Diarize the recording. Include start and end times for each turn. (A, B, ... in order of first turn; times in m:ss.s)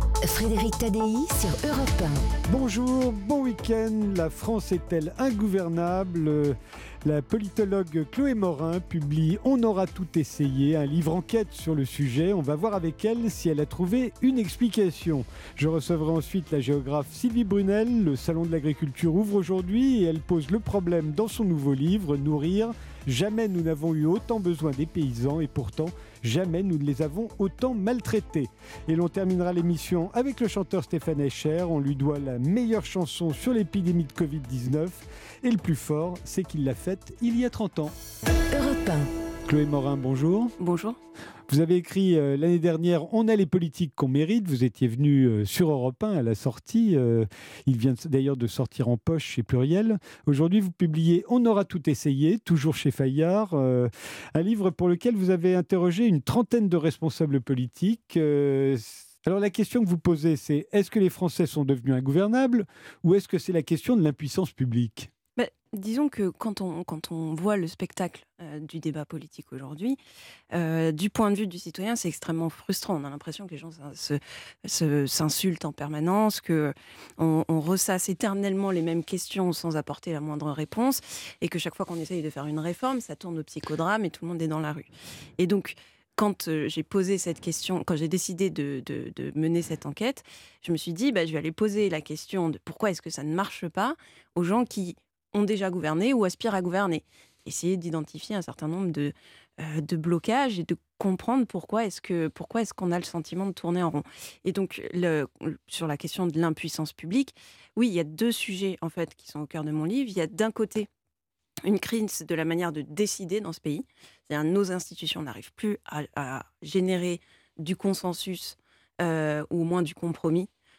0:00.2-0:02.2 A
0:02.5-0:38.0 B
0:38.5-0:39.1 A
0:39.5-0:40.5 B
0:40.6-0:41.0 C
0:41.5-1:05.1 B
1:05.4-1:10.0 C
1:10.5-1:50.9 C
1:51.6-2:00.5 C